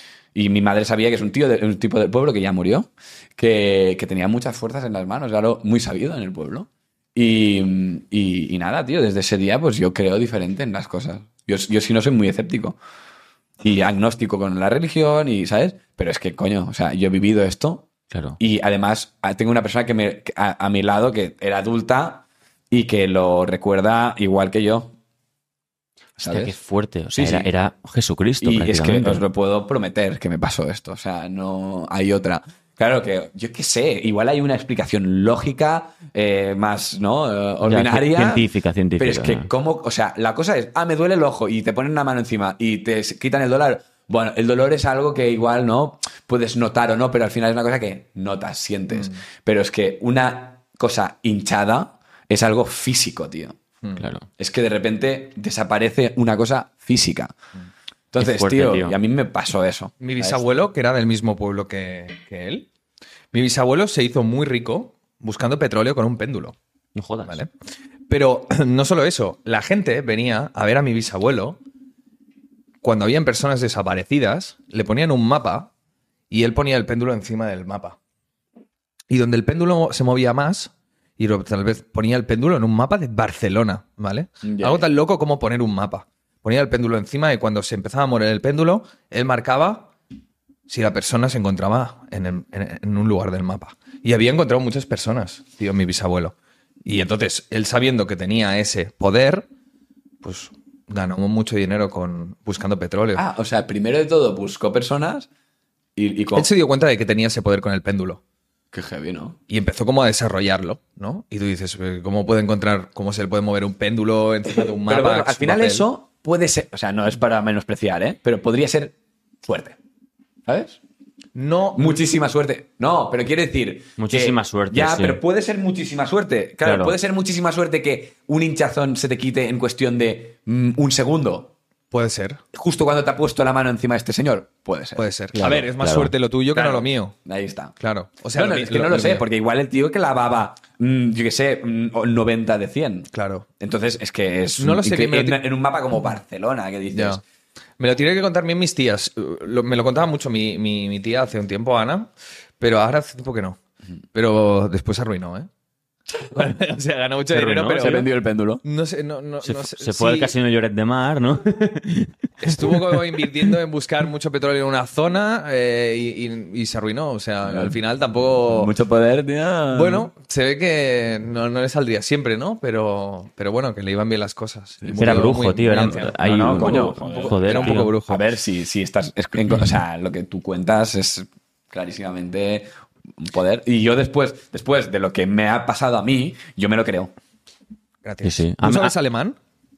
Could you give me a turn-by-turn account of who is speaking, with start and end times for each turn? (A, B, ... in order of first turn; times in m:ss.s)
0:00.4-0:12.8 A
0:13.6-0:24.9 A
0:18.1-0:18.4 B
0:26.2-0:26.6 A
0:26.2-0:29.2 B
0:27.1-0:27.5 A
0:28.4-0:53.6 A
0:37.6-0:39.5 B
0:48.9-0:49.2 C
0:54.0-0:54.3 B
0:54.4-0:57.4 A
0:58.1-1:00.4 A
0:58.2-0:59.0 B
1:00.0-1:02.7 C
1:03.3-1:06.6 C
1:07.0-1:07.4 B
1:07.3-1:07.5 C
1:08.1-1:11.6 C
1:12.8-1:15.7 C
1:16.3-1:18.0 C
1:19.1-1:29.9 C
1:24.4-1:24.8 A
1:30.7-1:39.5 C
1:40.2-1:43.2 C
1:43.2-1:45.3 A
1:46.0-1:46.5 A
1:46.3-1:48.2 C
1:48.7-1:49.4 A
1:49.5-1:55.9 C
1:54.9-1:59.8 A
2:00.5-2:00.8 A
2:01.4-2:01.9 C
2:01.8-2:11.5 A
2:04.0-2:05.2 B
2:06.6-2:07.0 B
2:11.9-2:12.4 C
2:12.5-2:15.7 A
2:15.0-2:17.2 C
2:15.4-2:16.1 B
2:16.5-2:17.7 A
2:17.8-2:19.2 C
2:18.3-2:27.2 A
2:23.1-2:23.5 C
2:24.6-2:25.4 C
2:26.9-2:27.2 C
2:27.8-2:33.6 C
2:34.1-2:35.5 C
2:36.2-2:40.3 C
2:37.3-2:38.0 B
2:37.7-2:38.6 A
2:39.4-2:43.3 B
2:42.4-2:48.7 C
2:47.4-2:47.8 A
2:48.4-2:50.1 A
2:49.7-2:58.2 C
2:54.8-3:07.1 A
2:55.0-2:58.0 B
3:08.0-3:09.4 C
3:08.2-3:09.0 B